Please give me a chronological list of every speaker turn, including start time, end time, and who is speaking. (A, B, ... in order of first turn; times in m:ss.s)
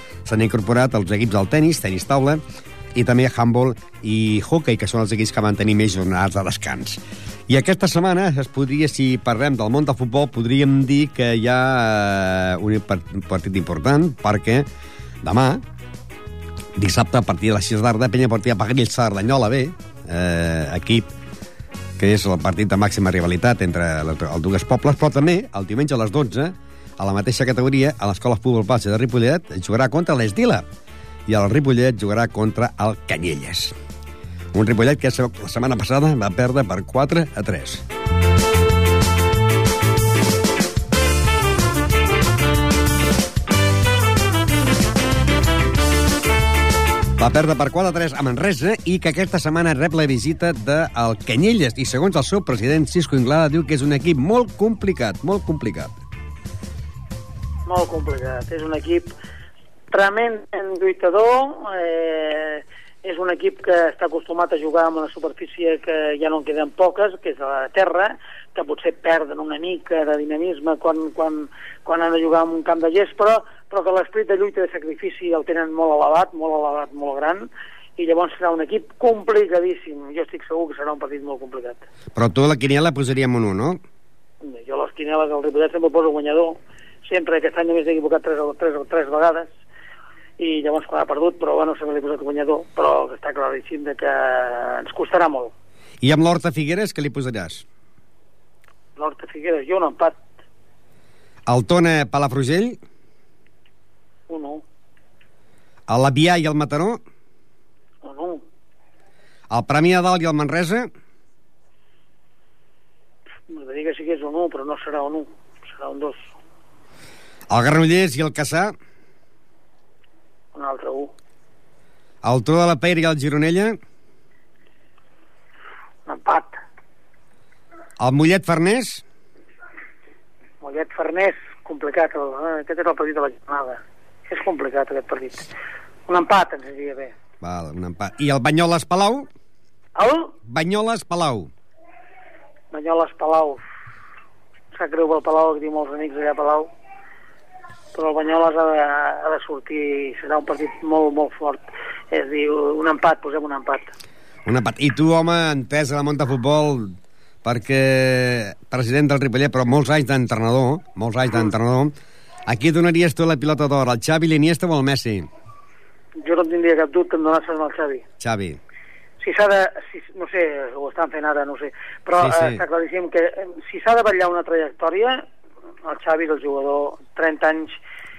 0:00.2-0:02.4 A
0:02.9-0:14.6 A
0:15.2-0:15.6 A
0:16.8-0:21.1 A
0:22.0-0:30.6 A
0:31.3-0:33.7 A
0:34.5-0:37.8 A
0:47.2-0:56.0 A
0:57.6-0:59.1 B
0:59.9-1:21.8 B
1:22.1-1:23.8 A
1:24.4-1:29.5 B
1:30.4-1:35.5 B
1:36.0-1:37.6 A
1:39.0-1:40.2 B
1:41.4-1:42.8 A
1:44.3-1:44.6 B
1:45.9-1:47.0 A
1:48.0-1:48.4 B
1:49.5-1:50.9 A
1:53.5-1:56.3 B
1:57.5-1:58.7 A
2:00.5-2:01.1 B
2:02.2-2:03.8 A
2:06.0-2:06.6 B
2:08.0-2:09.0 A
2:10.6-2:15.5 B
2:16.1-2:17.1 B
2:17.4-2:19.3 A
2:20.0-2:20.3 B
2:20.4-2:21.5 A
2:22.7-2:23.6 B
2:24.7-2:26.7 B
2:27.9-2:33.9 B
2:34.4-2:41.9 A
2:42.5-2:45.3 A
2:46.2-2:48.0 B
2:48.2-2:48.6 A
2:49.2-2:55.2 B
2:52.2-2:52.6 A
2:55.8-2:57.8 B